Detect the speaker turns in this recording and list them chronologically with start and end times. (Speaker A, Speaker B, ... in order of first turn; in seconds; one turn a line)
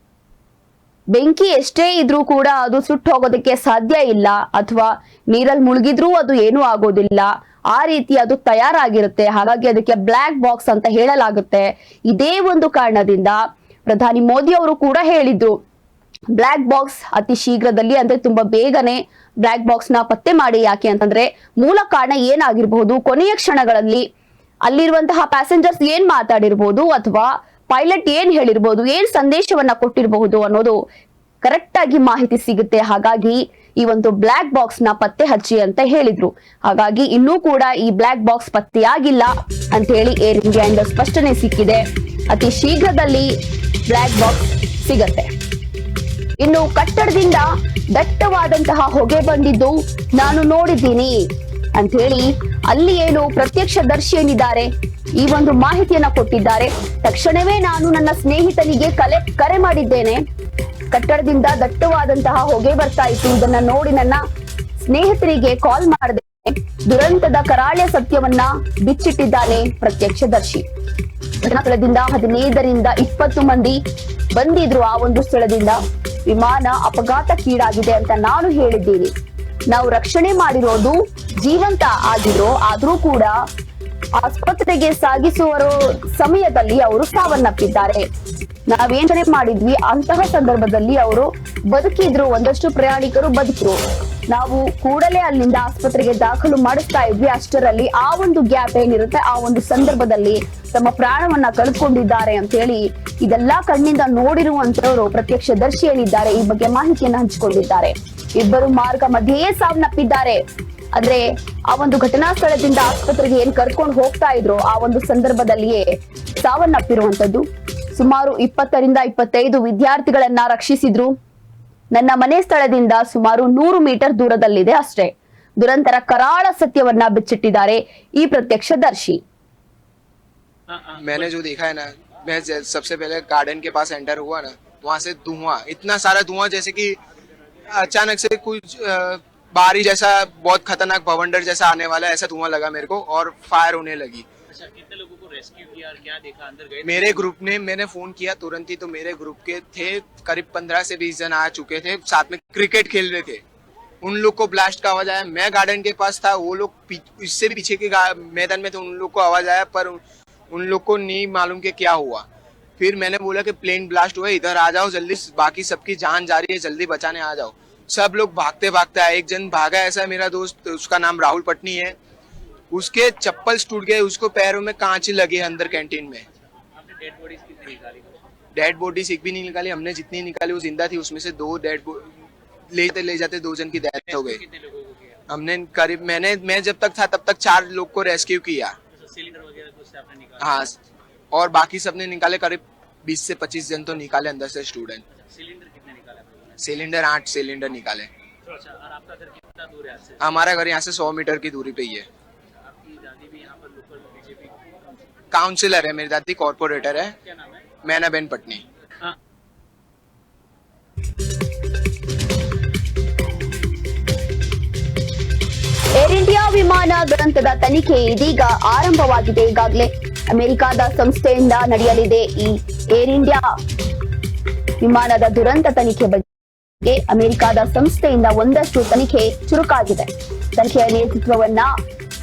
Speaker A: 1.1-15.6
Speaker A: 16.3-24.1
Speaker A: 24.6-30.8
Speaker A: 31.4-43.4
Speaker A: 43.9-45.3
Speaker A: 46.4-60.2
Speaker A: 60.9-64.2
Speaker A: 64.8-70.7
Speaker A: 71.4-73.8
Speaker A: 74.3-79.1
Speaker A: 79.7-83.4
Speaker A: 84.2-88.0
Speaker A: 88.7-110.4
Speaker A: 111.0-121.1
Speaker A: 121.9-129.2
Speaker B: 130.7-131.1
Speaker C: 131.0-137.0
Speaker C: 137.7-144.3
Speaker B: 144.5-147.3
Speaker C: 146.8-153.4
Speaker C: 154.0-162.2
Speaker C: 162.8-171.9
Speaker C: 172.7-176.2
Speaker B: 176.8-178.2
Speaker C: 178.6-182.1
Speaker C: 182.7-184.4
Speaker B: 184.1-185.2
Speaker C: 185.3-188.8
Speaker B: 188.9-190.7
Speaker C: 190.4-190.8
Speaker C: 191.3-195.0
Speaker B: 195.2-196.6
Speaker C: 196.6-198.1
Speaker B: 198.5-200.2
Speaker C: 200.2-202.1
Speaker B: 202.6-204.8
Speaker C: 205.3-207.2
Speaker C: 207.8-208.6
Speaker A: 216.0-223.6
Speaker A: 224.8-226.3
Speaker A: 226.8-231.7